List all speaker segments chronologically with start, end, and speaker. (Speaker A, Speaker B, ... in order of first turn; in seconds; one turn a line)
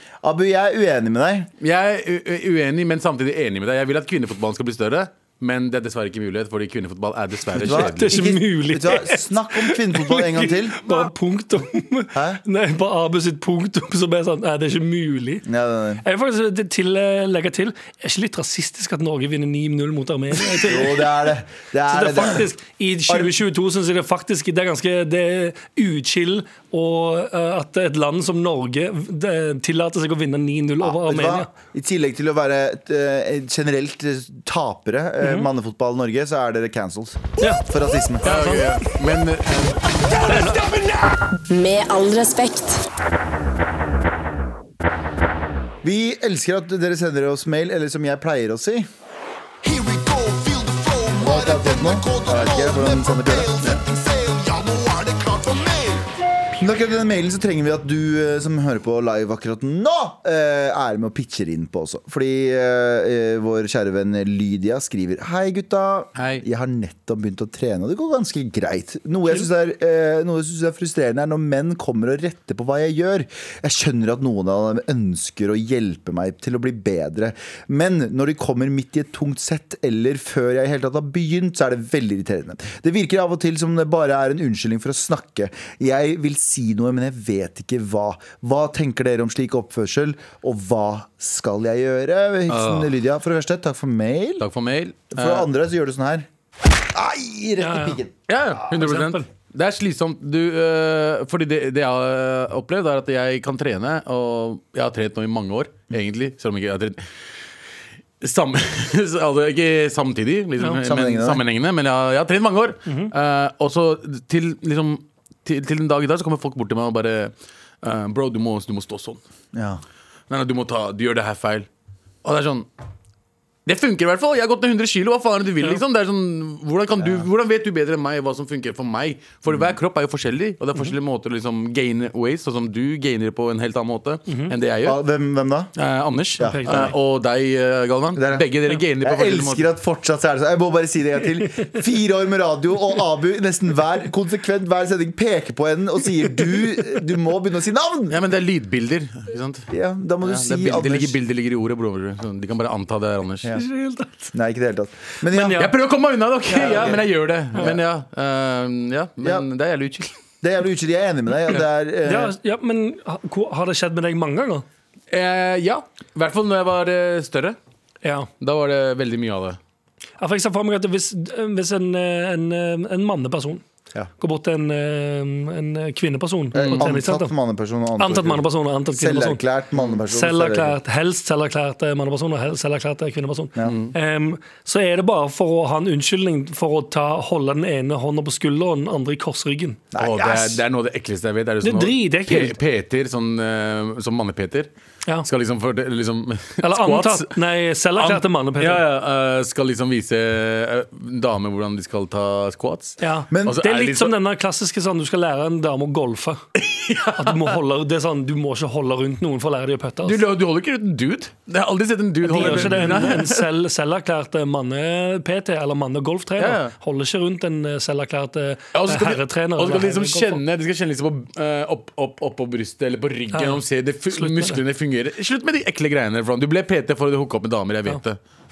Speaker A: 0.2-1.5
Speaker B: 1.6-8.2
Speaker A: 7.5-10.8
Speaker C: 7.7-15.4
Speaker A: 12.1-12.4
Speaker A: 15.4-16.0
Speaker C: 16.0-21.3
Speaker A: 20.4-22.5
Speaker C: 21.9-31.5
Speaker A: 23.1-23.4
Speaker A: 30.8-38.3
Speaker C: 35.2-35.5
Speaker C: 38.2-38.8
Speaker B: 38.2-40.8
Speaker C: 40.2-40.6
Speaker D: 41.5-42.8
Speaker A: 45.8-48.9
Speaker D: 49.6-56.1
Speaker A: 51.2-53.8
Speaker A: 56.6-94.5
Speaker B: 66.2-66.4
Speaker B: 92.5-92.9
Speaker B: 94.4-95.5
Speaker A: 95.1-96.3
Speaker A: 96.9-98.1
Speaker C: 97.6-98.0
Speaker B: 98.3-107.0
Speaker C: 98.7-99.3
Speaker B: 108.2-119.2
Speaker A: 110.8-111.4
Speaker C: 112.9-113.1
Speaker A: 119.5-119.8
Speaker B: 120.3-121.7
Speaker B: 122.2-122.7
Speaker B: 123.7-135.0
Speaker A: 127.0-127.3
Speaker A: 134.8-135.7
Speaker B: 135.8-139.7
Speaker A: 136.4-136.9
Speaker C: 136.4-136.9
Speaker A: 138.2-138.5
Speaker A: 139.0-148.2
Speaker B: 148.1-149.7
Speaker A: 149.7-151.2
Speaker B: 150.2-153.6
Speaker C: 153.5-154.3
Speaker A: 154.3-155.7
Speaker C: 155.3-155.7
Speaker B: 155.6-160.1
Speaker C: 156.5-157.0
Speaker A: 156.6-157.0
Speaker A: 157.6-157.8
Speaker A: 160.4-162.3
Speaker C: 162.1-164.7
Speaker B: 165.1-167.6
Speaker C: 168.0-168.3
Speaker B: 168.4-169.6
Speaker C: 170.2-173.6
Speaker C: 174.2-177.3
Speaker A: 176.5-180.8
Speaker B: 176.6-176.9
Speaker C: 178.0-179.4
Speaker C: 180.1-189.8
Speaker B: 183.6-183.9
Speaker A: 189.9-190.6
Speaker B: 190.0-194.7
Speaker C: 191.6-192.6
Speaker B: 195.2-197.4
Speaker C: 196.6-198.8
Speaker B: 197.9-204.2
Speaker C: 203.0-206.4
Speaker A: 203.3-203.6
Speaker B: 206.6-207.6
Speaker C: 207.2-210.2
Speaker B: 210.1-213.5
Speaker C: 212.2-220.4
Speaker A: 212.4-212.8
Speaker B: 216.4-216.7
Speaker B: 218.7-228.2
Speaker C: 223.3-224.6